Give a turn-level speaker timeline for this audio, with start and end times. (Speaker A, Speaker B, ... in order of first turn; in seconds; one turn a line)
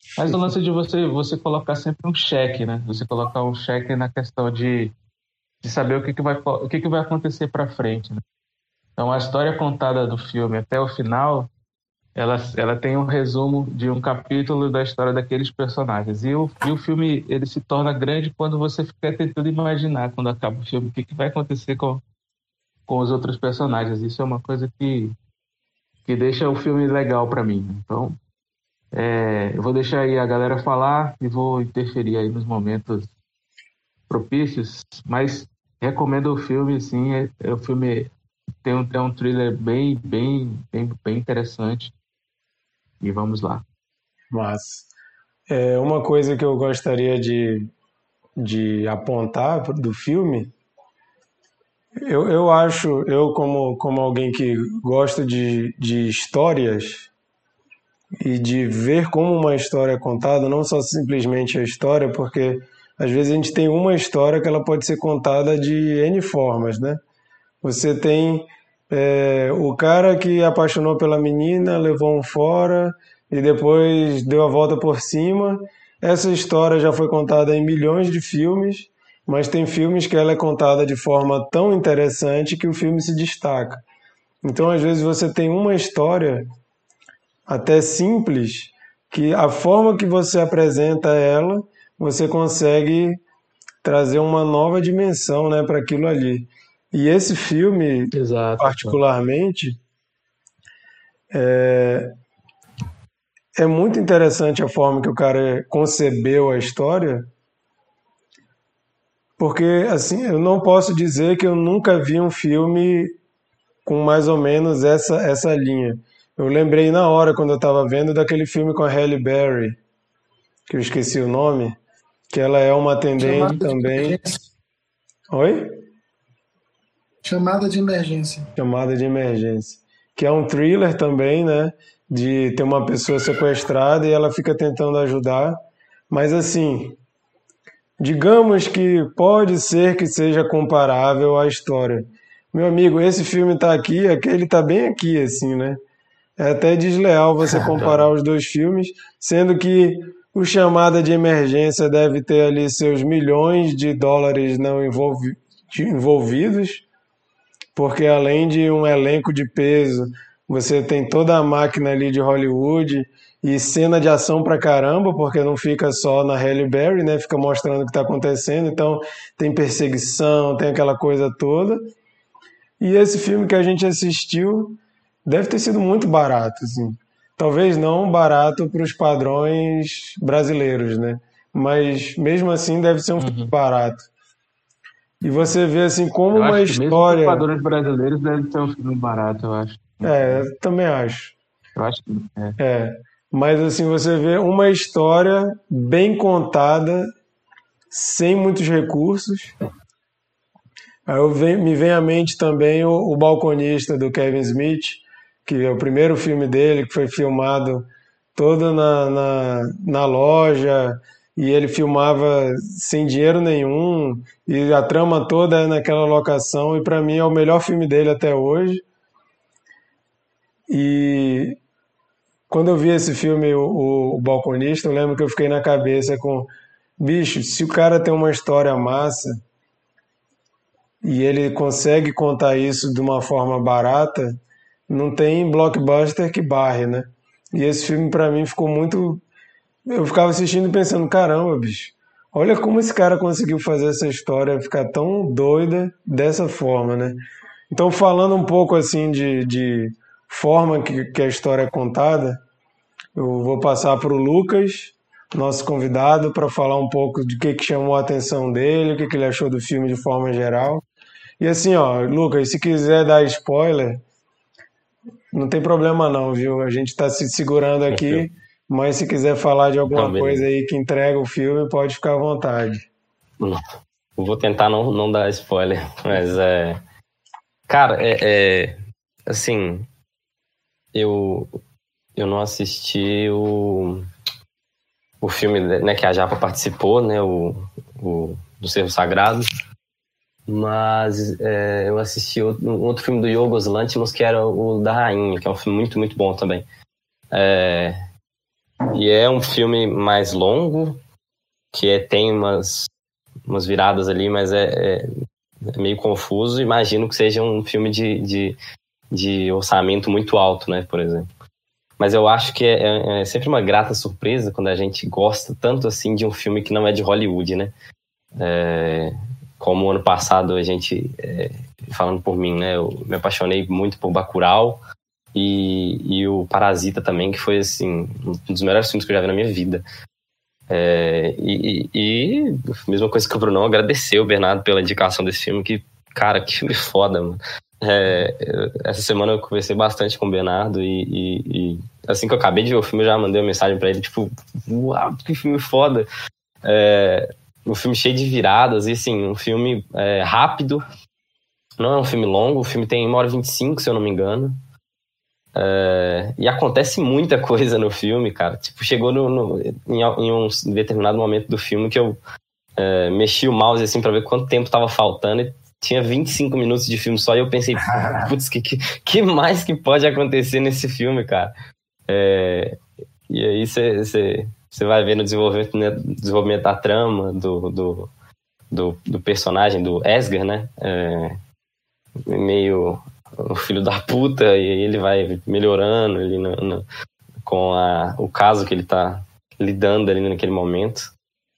Speaker A: 0.2-4.9
Speaker A: 5.6-8.2
Speaker A: 9.0-11.5
Speaker A: 12.2-22.0
Speaker A: 22.9-25.2
Speaker A: 26.1-28.2
Speaker A: 28.9-33.1
Speaker A: 34.1-38.1
Speaker A: 38.6-41.9
Speaker A: 43.0-43.6
Speaker B: 44.3-44.9
Speaker B: 45.5-47.7
Speaker B: 48.4-50.5
Speaker B: 52.0-57.1
Speaker B: 58.2-67.0
Speaker B: 67.6-83.8
Speaker B: 84.4-86.5
Speaker B: 87.5-93.2
Speaker B: 93.8-99.8
Speaker A: 98.1-99.0
Speaker B: 101.3-102.2
Speaker B: 103.6-107.3
Speaker B: 109.4-113.2
Speaker B: 113.8-119.8
Speaker B: 120.7-121.8
Speaker B: 122.3-124.2
Speaker C: 123.2-124.4
Speaker B: 125.3-125.8
Speaker C: 127.2-128.5
Speaker B: 128.6-137.0
Speaker B: 138.0-145.8
Speaker B: 146.4-156.8
Speaker B: 157.8-171.9
Speaker B: 172.8-184.1
Speaker A: 183.2-183.5
Speaker B: 185.2-187.4
Speaker A: 186.3-190.4
Speaker B: 190.0-191.3
Speaker A: 191.8-192.6
Speaker B: 192.6-197.1
Speaker B: 197.9-199.6
Speaker B: 201.1-218.8
Speaker B: 220.7-221.6
Speaker B: 222.5-229.4
Speaker B: 231.0-239.2
Speaker B: 239.9-252.4
Speaker B: 253.2-260.8
Speaker B: 261.4-264.0
Speaker B: 265.3-272.9
Speaker D: 267.9-268.3
Speaker D: 269.9-270.4
Speaker D: 274.2-276.8
Speaker D: 277.7-278.8
Speaker D: 279.3-279.9
Speaker D: 280.9-281.5
Speaker D: 282.2-284.1
Speaker D: 285.2-289.5
Speaker D: 290.5-296.7
Speaker D: 297.3-298.0
Speaker D: 298.9-301.0
Speaker D: 301.7-302.9
Speaker D: 303.5-305.1
Speaker D: 305.7-308.6
Speaker D: 309.1-311.3
Speaker D: 312.0-317.7
Speaker D: 318.4-324.8
Speaker D: 325.4-329.8
Speaker D: 330.7-346.1
Speaker D: 346.6-350.9
Speaker D: 351.8-354.6
Speaker D: 355.6-362.2
Speaker D: 362.8-371.5
Speaker D: 372.1-372.8
Speaker D: 373.3-378.1
Speaker D: 378.7-381.4
Speaker D: 382.3-386.9
Speaker D: 387.4-391.1